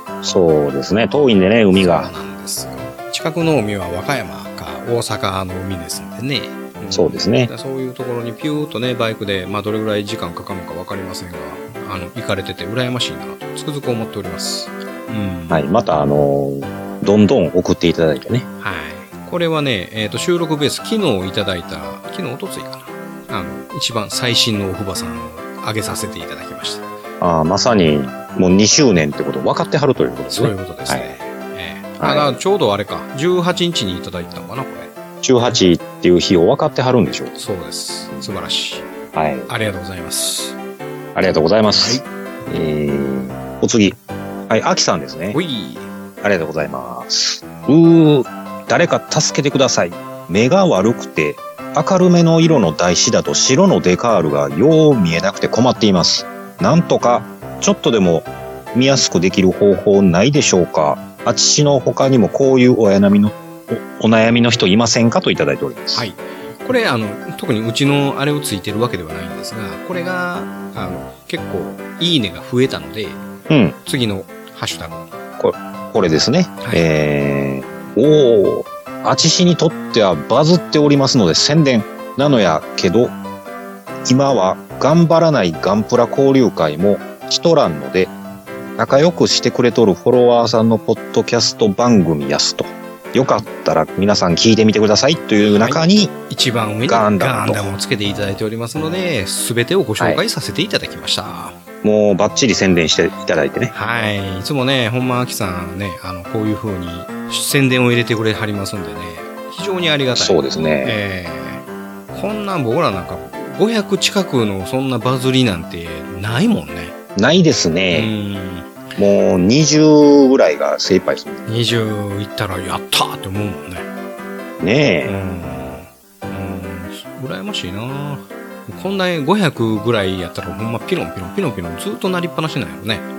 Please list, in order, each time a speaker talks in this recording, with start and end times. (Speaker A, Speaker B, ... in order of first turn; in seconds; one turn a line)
Speaker A: 0.2-2.1
Speaker B: 1.8-15.6
Speaker A: 6.9-7.5
Speaker A: 15.5-18.5
Speaker B: 18.6-26.8
Speaker A: 27.2-31.1
Speaker B: 30.3-34.9
Speaker A: 32.0-32.4
Speaker A: 35.2-37.4
Speaker B: 37.4-38.9
Speaker A: 39.1-39.5
Speaker B: 39.5-40.6
Speaker A: 41.1-45.4
Speaker B: 41.8-42.0
Speaker B: 45.3-45.9
Speaker A: 46.2-66.0
Speaker B: 65.9-73.2
Speaker A: 73.5-73.8
Speaker B: 73.8-75.1
Speaker A: 75.4-83.2
Speaker A: 84.0-88.1
Speaker A: 88.8-96.2
Speaker B: 95.5-101.6
Speaker A: 96.9-97.7
Speaker A: 101.8-103.7
Speaker B: 103.7-117.0
Speaker A: 110.2-111.0
Speaker A: 117.2-118.1
Speaker B: 117.9-118.7
Speaker A: 119.0-121.4
Speaker B: 121.5-123.9
Speaker A: 124.6-125.1
Speaker B: 125.0-133.1